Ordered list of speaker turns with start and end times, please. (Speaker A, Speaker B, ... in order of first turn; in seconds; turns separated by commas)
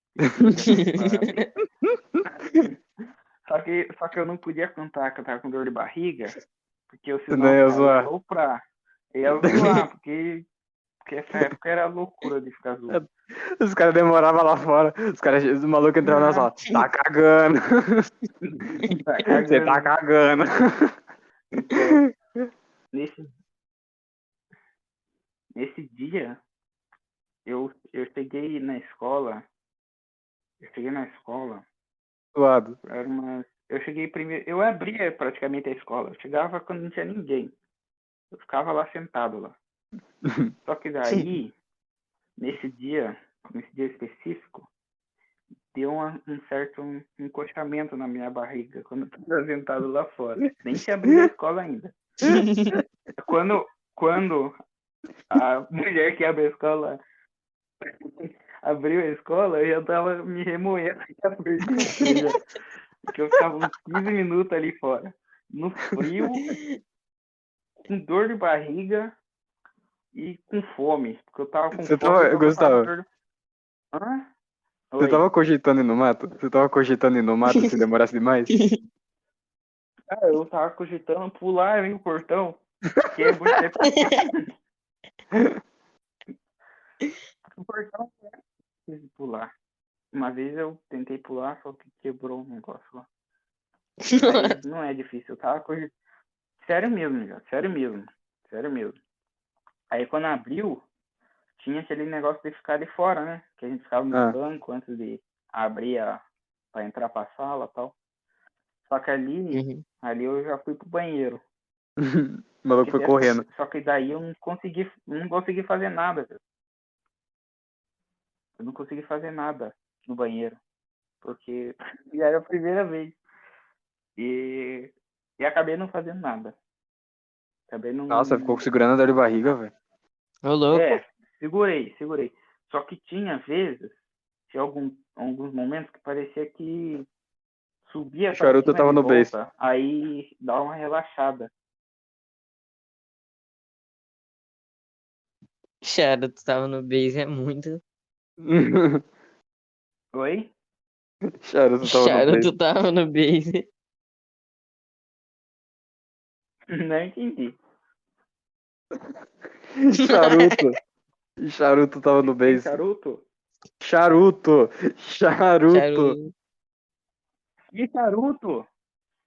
Speaker A: 0.1-1.5, Speaker B: 2.1-2.6, Speaker A: 3.5-6.4, Speaker A: 6.9-8.6, Speaker B: 7.3-8.1, Speaker A: 9.1-10.4, Speaker B: 9.4-9.8, Speaker A: 11.0-13.0, Speaker B: 12.9-18.1, Speaker A: 16.0-16.5, Speaker A: 18.4-19.9, Speaker B: 19.3-20.9, Speaker A: 21.6-22.0, Speaker B: 21.7-22.1, Speaker A: 22.9-23.3, Speaker A: 25.6-26.4, Speaker A: 27.4-29.4, Speaker A: 30.6-31.6, Speaker B: 32.3-32.8, Speaker A: 32.9-37.5, Speaker A: 38.3-39.5, Speaker B: 40.2-40.5, Speaker A: 40.6-41.5, Speaker A: 42.4-44.7, Speaker A: 45.7-51.9, Speaker B: 52.2-52.8, Speaker C: 52.3-52.8, Speaker A: 53.2-54.5, Speaker A: 55.3-57.0, Speaker A: 57.9-62.4, Speaker B: 61.8-62.2, Speaker A: 63.1-66.5, Speaker A: 67.9-69.1, Speaker A: 70.1-73.0, Speaker B: 71.7-72.9, Speaker A: 73.9-74.3, Speaker A: 74.9-75.2, Speaker B: 75.0-78.5, Speaker A: 80.1-84.5, Speaker B: 85.3-85.6, Speaker A: 87.5-88.3, Speaker A: 88.9-89.5, Speaker A: 90.1-93.0, Speaker C: 94.0-94.5, Speaker A: 94.2-95.9, Speaker A: 96.6-99.0, Speaker A: 99.9-100.8, Speaker A: 101.6-107.9, Speaker A: 108.8-111.4, Speaker C: 109.5-109.8, Speaker B: 112.0-113.4, Speaker A: 112.8-116.4, Speaker A: 118.6-120.6, Speaker A: 121.2-123.2, Speaker A: 124.2-126.5, Speaker A: 127.7-128.6, Speaker B: 128.1-129.7, Speaker C: 130.4-131.0, Speaker A: 130.7-133.9, Speaker A: 134.5-137.1, Speaker A: 137.9-141.5, Speaker B: 138.3-139.3, Speaker C: 145.8-147.8, Speaker B: 148.4-149.0, Speaker A: 150.1-150.5, Speaker B: 151.4-152.5, Speaker C: 151.8-153.7, Speaker A: 156.7-157.6, Speaker B: 159.8-160.8, Speaker C: 160.1-160.6, Speaker B: 161.4-162.7, Speaker A: 162.3-163.2, Speaker B: 163.8-166.2, Speaker C: 165.7-166.3, Speaker A: 167.7-168.7